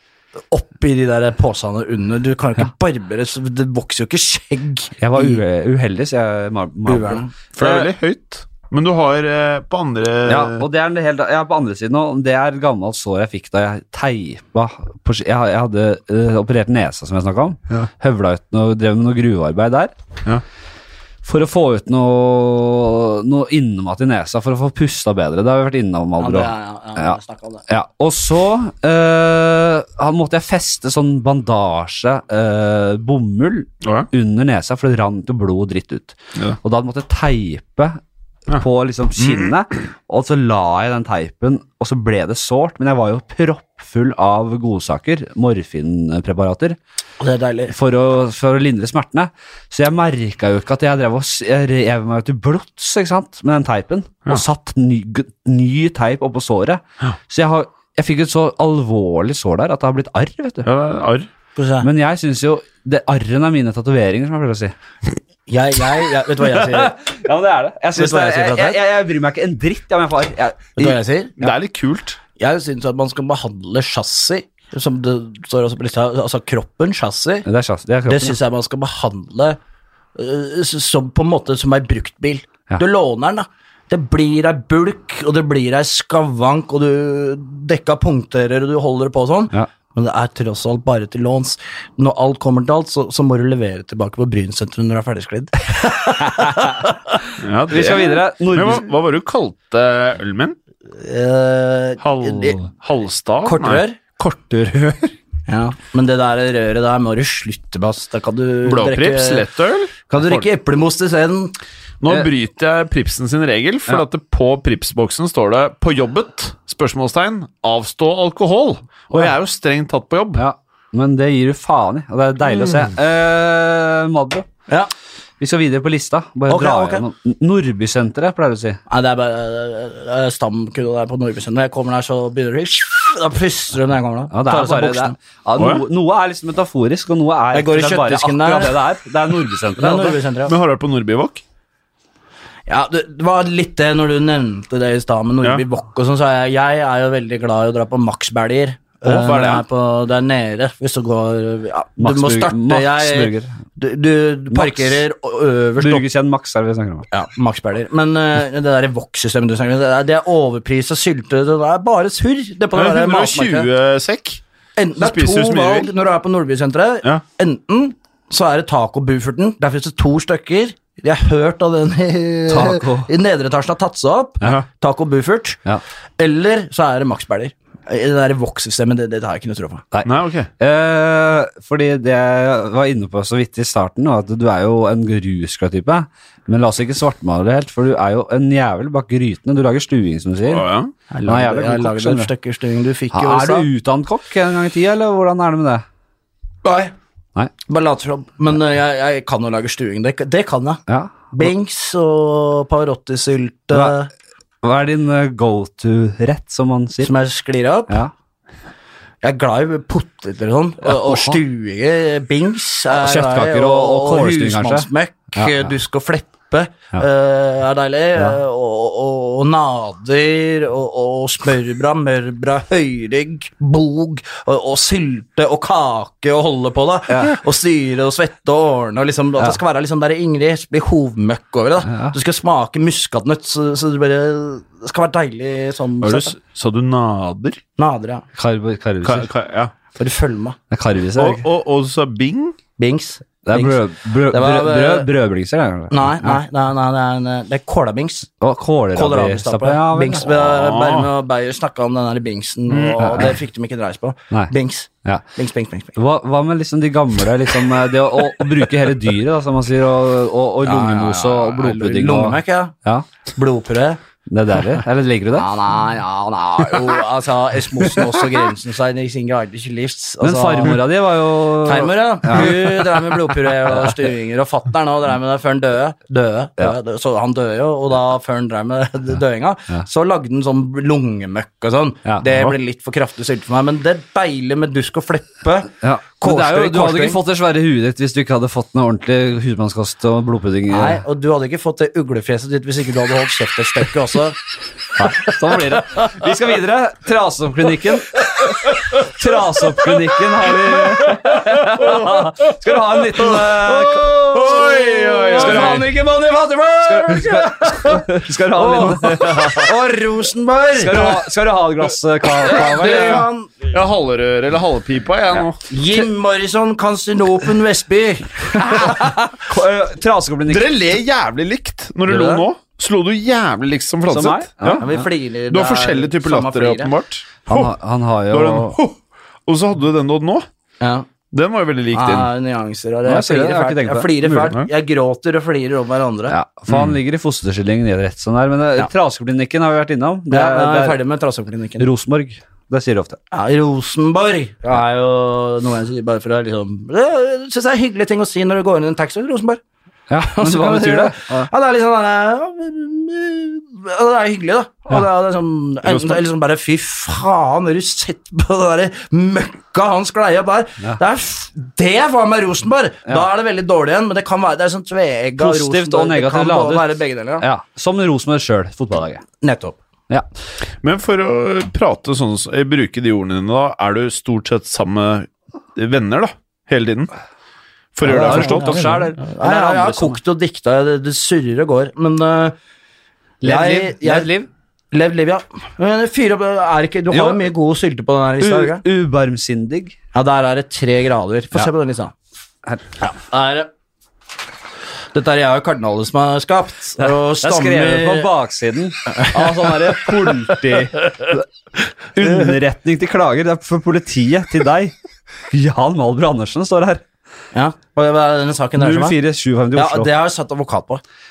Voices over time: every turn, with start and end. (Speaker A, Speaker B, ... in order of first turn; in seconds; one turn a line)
Speaker A: 0.5-5.4
Speaker B: 5.0-7.8
Speaker A: 6.8-7.3
Speaker C: 7.5-10.6
Speaker B: 10.3-19.9
Speaker B: 21.2-27.2
Speaker A: 26.2-27.6
Speaker B: 27.7-38.0
Speaker C: 33.8-34.1
Speaker B: 38.5-46.8
Speaker C: 39.2-39.5
Speaker A: 47.2-47.7
Speaker B: 47.7-60.7
Speaker C: 60.6-61.3
Speaker A: 61.5-61.9
Speaker B: 61.8-64.7
Speaker A: 65.5-67.0
Speaker B: 66.5-71.0
Speaker A: 67.9-68.8
Speaker A: 70.8-71.4
Speaker C: 71.4-72.2
Speaker A: 72.3-77.5
Speaker B: 77.5-78.3
Speaker A: 78.1-79.6
Speaker A: 80.1-97.3
Speaker C: 97.4-100.5
Speaker B: 97.7-98.8
Speaker A: 100.9-102.6
Speaker C: 102.0-103.8
Speaker A: 103.4-104.2
Speaker B: 104.2-105.1
Speaker A: 105.5-109.5
Speaker C: 108.6-110.5
Speaker A: 110.1-111.5
Speaker C: 112.0-120.4
Speaker B: 120.3-124.5
Speaker C: 122.5-122.9
Speaker B: 125.4-128.8
Speaker A: 126.5-127.0
Speaker A: 128.9-135.2
Speaker B: 134.3-140.2
Speaker C: 135.6-135.8
Speaker A: 137.5-138.8
Speaker A: 139.8-140.5
Speaker C: 140.5-141.4
Speaker A: 142.7-156.1
Speaker B: 149.0-149.6
Speaker C: 149.1-149.6
Speaker B: 152.0-153.6
Speaker B: 154.5-155.0
Speaker B: 155.8-157.1
Speaker A: 157.1-163.7
Speaker C: 162.7-164.4
Speaker A: 164.8-175.6
Speaker C: 165.0-165.9
Speaker B: 172.5-173.1
Speaker A: 176.2-179.8
Speaker B: 179.9-190.7
Speaker C: 180.0-180.5
Speaker C: 190.5-190.9
Speaker A: 191.1-193.7
Speaker B: 191.2-192.3
Speaker B: 193.1-195.8
Speaker A: 196.6-196.9
Speaker A: 197.7-200.8
Speaker B: 200.9-201.3
Speaker A: 201.3-204.1
Speaker B: 203.7-203.9
Speaker B: 204.6-207.1
Speaker A: 207.0-208.0
Speaker A: 209.2-236.3
Speaker B: 210.8-211.4
Speaker B: 212.9-215.7
Speaker B: 227.1-227.3
Speaker B: 231.8-232.1
Speaker C: 236.0-237.6
Speaker A: 237.8-238.2
Speaker B: 238.3-239.3
Speaker C: 239.0-239.7
Speaker A: 239.9-240.6
Speaker B: 240.7-241.4
Speaker C: 241.2-242.6
Speaker A: 242.8-245.1
Speaker B: 243.4-246.3
Speaker A: 245.9-248.3
Speaker B: 248.4-250.3
Speaker A: 248.9-255.9
Speaker C: 250.5-251.1
Speaker C: 252.7-253.2
Speaker B: 253.0-253.3
Speaker B: 255.9-263.1
Speaker A: 260.6-262.7
Speaker A: 263.3-264.0
Speaker B: 264.3-265.5
Speaker A: 265.4-270.8
Speaker B: 270.2-273.0
Speaker A: 271.6-287.2
Speaker B: 282.1-282.5
Speaker B: 285.8-291.0
Speaker A: 290.7-294.4
Speaker B: 295.0-304.3
Speaker A: 300.8-302.3
Speaker A: 303.1-311.2
Speaker C: 304.3-305.9
Speaker B: 305.3-305.9
Speaker B: 306.8-309.7
Speaker B: 310.7-313.2
Speaker A: 312.4-313.7
Speaker C: 312.8-315.6
Speaker A: 315.7-319.2
Speaker B: 318.6-320.7
Speaker C: 320.5-324.9
Speaker A: 322.1-322.4
Speaker B: 324.1-325.0
Speaker A: 324.8-326.9
Speaker C: 325.5-327.7
Speaker B: 327.5-328.8
Speaker C: 328.3-328.9
Speaker C: 329.5-330.4
Speaker A: 330.8-331.1
Speaker C: 331.3-332.3
Speaker A: 331.9-336.3
Speaker B: 333.1-334.2
Speaker C: 334.2-334.7
Speaker B: 336.3-341.0
Speaker A: 340.3-341.9
Speaker B: 341.8-343.2
Speaker A: 343.3-349.6
Speaker B: 350.1-351.5
Speaker A: 350.2-367.4
Speaker C: 355.8-356.2
Speaker B: 365.4-369.2
Speaker A: 369.4-369.8
Speaker C: 370.8-377.1
Speaker C: 377.9-378.8
Speaker A: 378.0-382.6
Speaker B: 378.1-380.2
Speaker B: 383.4-384.5
Speaker A: 383.4-384.3
Speaker A: 384.9-388.8
Speaker B: 387.1-387.4
Speaker B: 388.4-389.9
Speaker A: 390.1-392.1
Speaker A: 393.0-393.7
Speaker A: 395.1-398.3
Speaker B: 397.4-401.5
Speaker A: 399.1-399.9
Speaker B: 402.1-404.9
Speaker A: 402.2-402.5
Speaker B: 405.5-407.0
Speaker A: 407.5-409.2
Speaker B: 408.8-410.1
Speaker A: 409.7-411.0